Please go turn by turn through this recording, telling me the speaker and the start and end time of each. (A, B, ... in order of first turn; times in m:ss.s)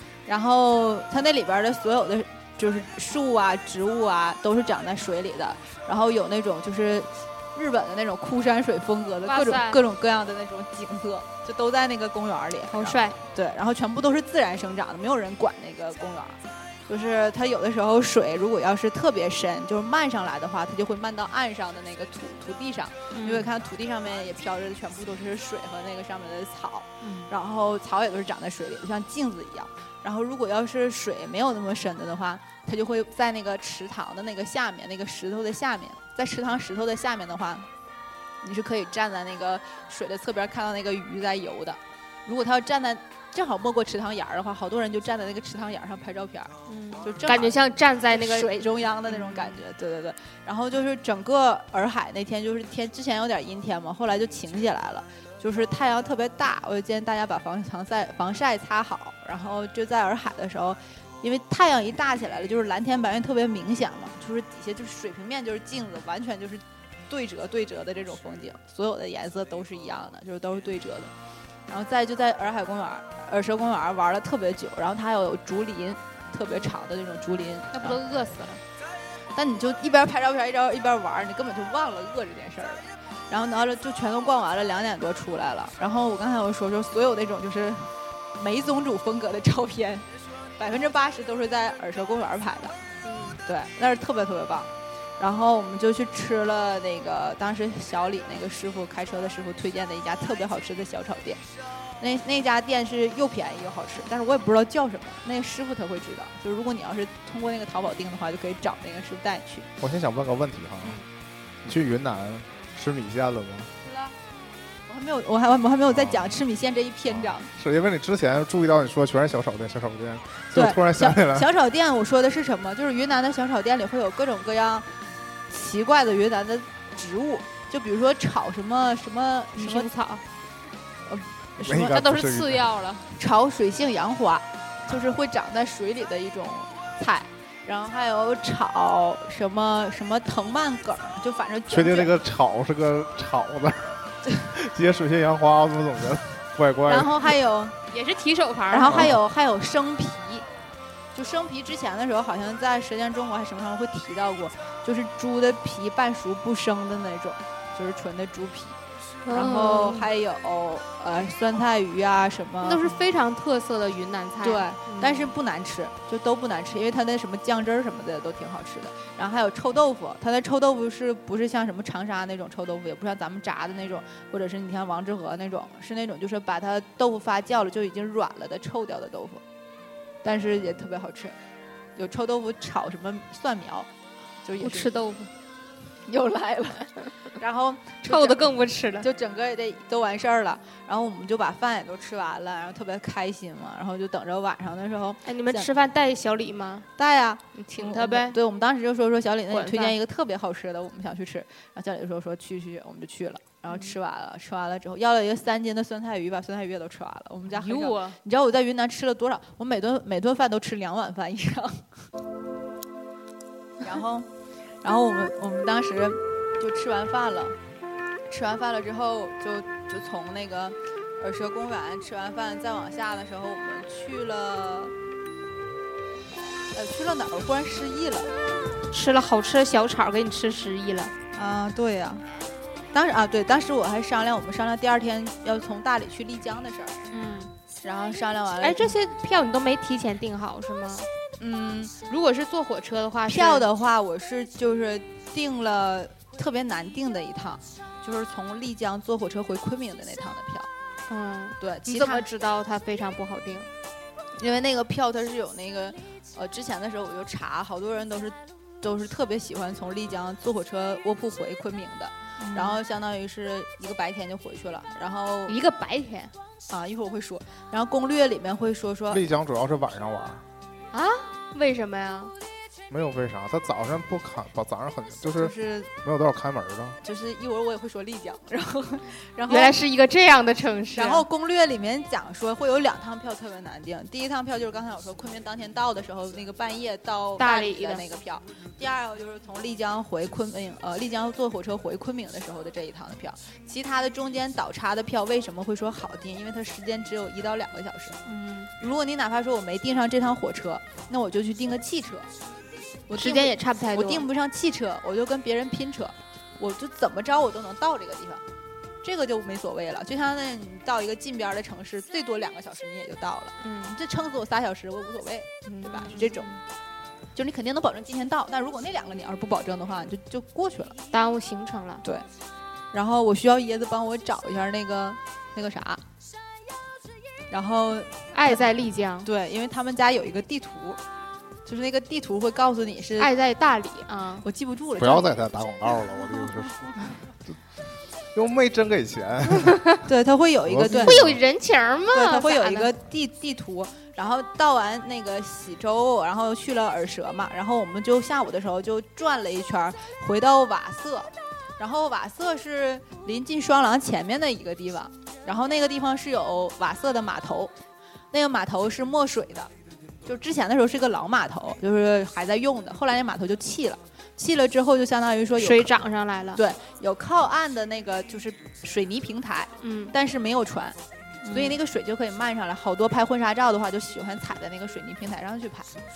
0:00.3-0:37.7 A
0:09.2-0:09.8 B
0:12.7-0:13.2 B
0:23.1-0:23.5 B
0:27.0-0:27.3 B
0:38.4-1:11.1 A
0:46.7-0:49.6 B
1:11.7-1:18.0 A
1:17.7-1:18.6 B
1:19.3-1:30.0 A
1:30.6-1:32.8 A
1:33.0-1:33.4 B
1:33.4-1:41.4 A
1:42.0-1:49.7 A
1:49.8-1:51.0 C
1:51.6-1:53.7 C
1:53.8-1:54.1 A
1:54.9-1:57.5 A
1:55.9-1:56.4 C
1:57.1-2:01.5 C
2:00.5-2:04.8 A
2:05.5-2:09.9 A
2:09.6-2:10.2 B
2:11.0-2:12.0 A
2:11.6-2:12.6 C
2:11.8-2:13.1 B
2:13.1-2:22.1 A
2:21.7-2:27.3 C
2:26.8-2:27.8 A
2:27.9-2:29.1 B
2:28.7-2:30.4 A
2:28.9-2:29.2 C
2:31.1-2:38.8 A
2:39.2-2:40.1 B
2:39.3-2:43.0 A
2:42.6-2:45.3 B
2:44.4-2:59.4 A
3:00.2-3:01.3 A
3:02.0-3:03.9 A
3:04.4-3:04.9 A
3:04.6-3:05.3 B
3:06.1-3:15.7 A
3:08.0-3:09.1 B
3:15.2-3:16.9 B
3:17.0-3:31.9 A
3:17.6-3:18.4 B
3:19.5-3:20.0 B
3:27.5-3:28.2 B
3:33.8-3:34.3 A
3:34.8-3:37.6 A
3:38.3-3:44.9 A
3:46.7-3:48.3 A
3:48.9-3:51.1 B
3:51.3-3:52.2 A
3:52.9-3:57.1 A
3:57.1-3:57.5 B
3:57.8-3:59.0 A
3:58.6-4:01.1 B
4:01.4-4:01.9 A
4:02.1-4:03.7 B
4:03.3-4:10.7 A
4:11.1-4:13.7 B
4:11.6-4:12.2 A
4:14.4-4:25.6 A
4:22.4-4:22.8 B
4:25.5-4:26.3 B
4:26.7-4:29.2 A
4:29.1-4:30.4 C
4:30.9-4:32.3 B
4:32.9-4:37.0 C
4:35.4-4:35.9 A
4:37.0-4:39.8 A
4:39.5-4:41.2 B
4:40.9-4:58.2 A
4:47.4-4:48.0 B
4:58.2-4:58.7 B
4:58.8-5:02.3 A
5:03.1-5:08.4 A
5:03.2-5:04.2 B
5:09.0-5:16.5 A
5:13.6-5:14.0 B
5:15.7-5:16.6 B
5:17.3-5:20.9 A
5:21.1-5:22.0 B
5:22.9-5:26.0 A
5:27.5-5:28.7 A
5:28.3-5:29.3 B
5:29.2-5:31.0 A
5:31.6-5:33.3 A
5:33.2-5:34.4 B
5:34.4-5:35.4 A
5:35.0-5:37.6 C
5:38.3-5:39.8 C
5:39.6-5:40.0 B
5:40.0-5:41.2 A
5:40.6-5:41.4 C
5:40.9-5:42.9 B
5:42.1-5:57.7 A
5:58.3-5:59.7 A
6:00.2-6:05.9 A
6:05.6-6:06.6 B
6:06.6-6:11.0 A
6:09.8-6:10.1 B
6:11.4-6:11.8 B
6:11.5-6:15.9 A